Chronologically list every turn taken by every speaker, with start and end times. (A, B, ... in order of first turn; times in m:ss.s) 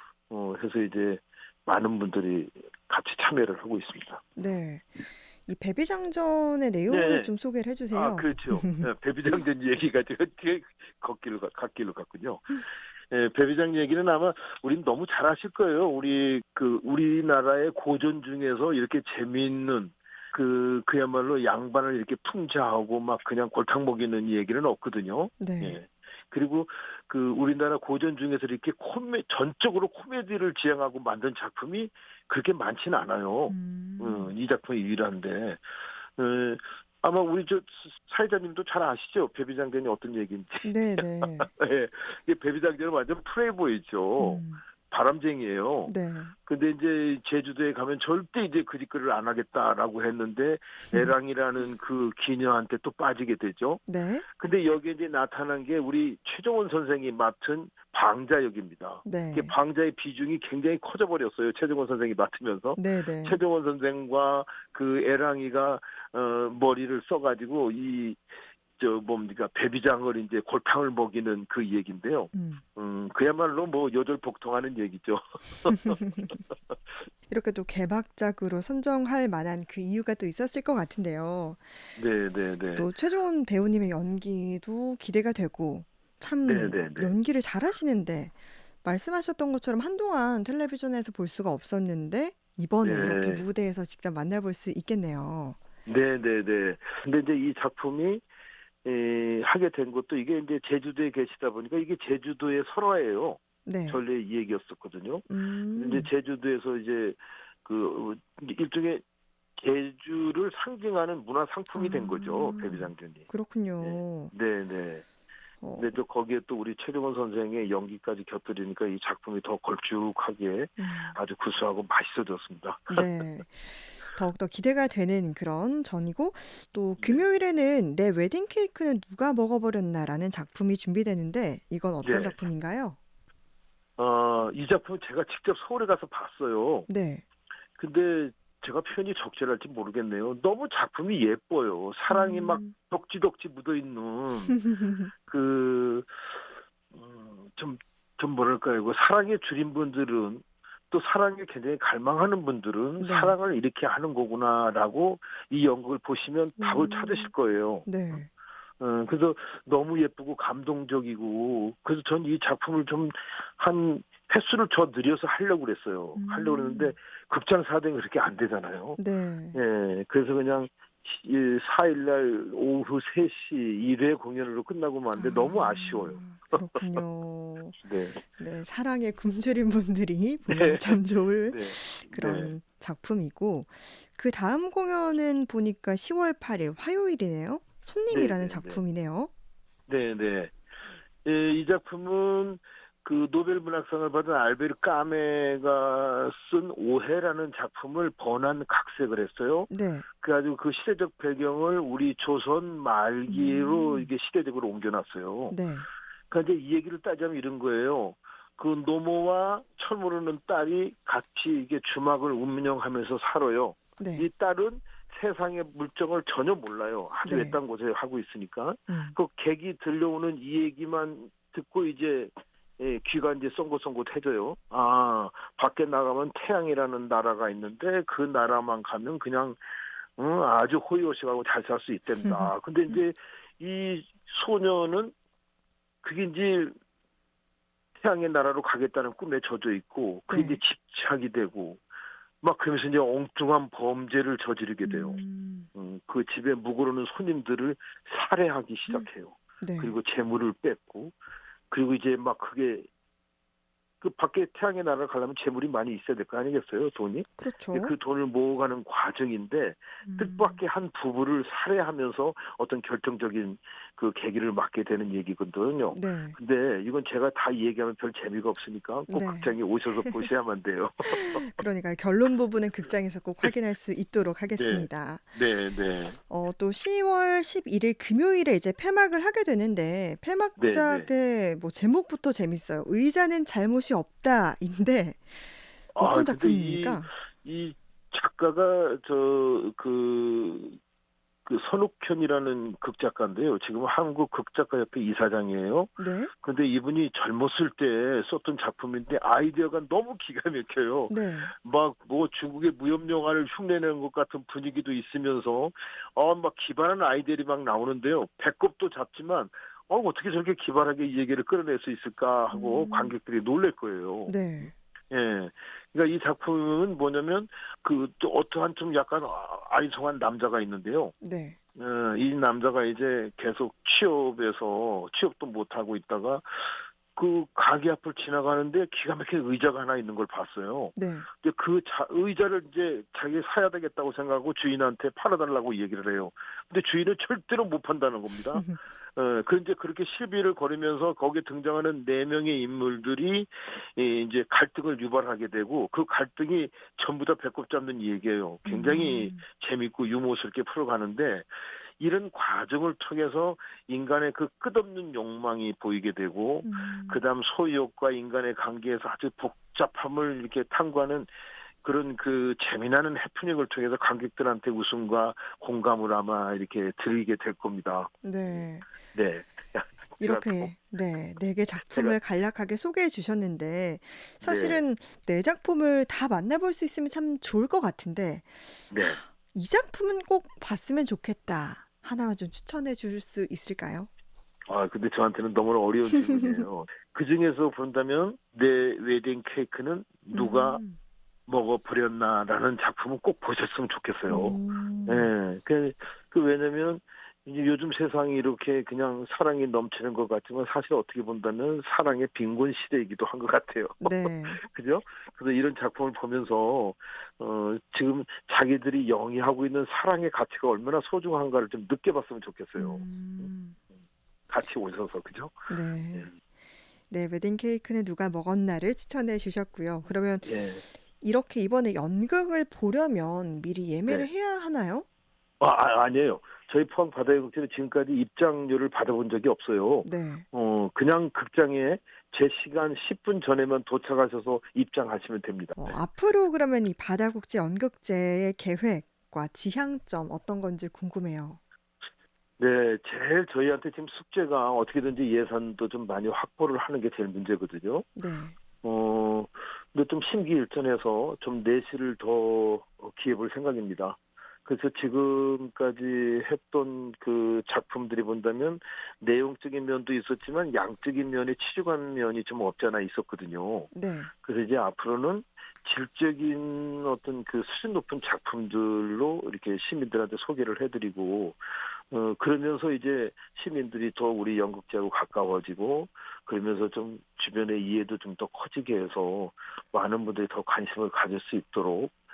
0:00.3-0:04.4 A
0:04.4-0:08.9 B
0:06.9-0:07.3 A
0:07.9-0:35.6 A
0:25.4-0:25.8 B
0:33.5-0:34.3 B
0:36.2-0:45.9 A
0:40.6-0:41.5 B
0:44.2-0:44.6 B
0:45.8-0:46.3 B
0:46.4-0:53.8 A
0:53.9-0:54.3 B
0:54.4-1:08.2 A
0:59.0-0:59.5 B
1:02.7-1:03.4 B
1:08.8-1:16.3 A
1:12.3-1:12.6 B
1:15.9-1:16.4 B
1:17.3-1:21.8 B
1:22.0-1:22.9 A
1:22.8-1:35.6 B
1:26.4-1:27.2 A
1:32.8-1:33.4 A
1:35.8-1:38.2 A
1:38.8-1:49.0 A
1:43.6-1:44.0 B
1:45.3-1:46.1 B
1:49.6-1:53.3 A
1:51.7-1:54.3 B
1:53.8-1:55.0 A
1:55.6-1:55.9 B
1:55.8-2:03.0 A
2:00.8-2:01.2 B
2:02.9-2:13.0 B
2:07.0-2:07.2 A
2:12.0-2:12.4 A
2:14.0-2:16.9 A
2:16.9-2:17.2 B
2:17.8-2:24.6 A
2:22.1-2:22.7 B
2:24.6-2:25.1 B
2:25.3-2:26.3 A
2:26.9-2:38.2 A
2:33.0-2:33.4 B
2:36.6-2:37.3 B
2:37.8-2:38.3 B
2:38.8-2:49.0 A
2:46.1-2:47.0 B
2:49.0-2:49.6 B
2:49.5-2:56.8 A
2:55.1-2:57.8 B
2:57.8-2:58.2 A
2:58.3-3:09.3 B
3:00.5-3:02.5 A
3:08.1-3:08.8 A
3:09.9-3:10.5 A
3:11.2-3:25.6 A
3:19.7-3:20.0 B
3:23.3-3:24.1 B
3:25.5-3:25.9 B
3:26.3-3:49.6 A
3:34.0-3:34.3 B
3:37.2-3:37.6 B
3:38.9-3:39.1 B
3:50.2-3:55.1 A
3:52.2-3:52.5 B
3:56.0-3:56.7 A
3:58.0-4:01.8 A
4:00.3-4:00.6 B
4:02.4-4:05.2 A
4:04.8-4:05.7 B
4:05.7-4:11.1 A
4:09.6-4:09.9 B
4:11.7-4:12.9 A
4:14.0-4:31.4 A
4:17.4-4:17.9 B
4:20.0-4:20.6 B
4:25.9-4:26.4 B
4:29.1-4:30.2 B
4:31.0-4:35.3 B
4:34.5-4:36.2 A
4:36.3-4:47.1 B
4:40.6-4:41.1 A
4:45.9-4:50.8 A
4:51.4-5:21.1 A
4:56.0-4:56.3 B
5:01.1-5:01.5 B
5:12.5-5:13.2 B
5:14.3-5:14.7 B
5:21.2-5:21.6 B
5:21.8-6:01.3 A
5:31.0-5:31.3 B
5:38.5-5:38.8 B
5:48.6-5:49.4 B
5:56.6-5:57.2 B
6:01.8-6:10.7 A
6:08.2-6:08.9 B
6:10.2-6:24.1 B
6:11.9-6:12.2 A
6:14.4-6:14.8 A
6:18.9-6:19.2 A
6:24.7-6:30.8 A
6:26.0-6:26.6 B
6:30.3-6:31.0 B
6:31.5-6:53.5 A
6:34.2-6:35.3 B
6:44.0-6:44.6 B
6:52.8-6:53.8 B
6:54.5-6:56.3 A
6:55.7-6:56.3 B
6:57.1-7:05.0 B
7:00.4-7:00.8 A
7:05.6-7:16.0 A
7:10.0-7:10.4 B
7:15.8-7:21.6 B
7:22.6-7:28.1 A
7:28.2-7:28.6 B
7:28.8-7:43.9 A
7:43.9-7:44.3 B
7:44.4-7:51.6 A
7:52.1-8:02.1 A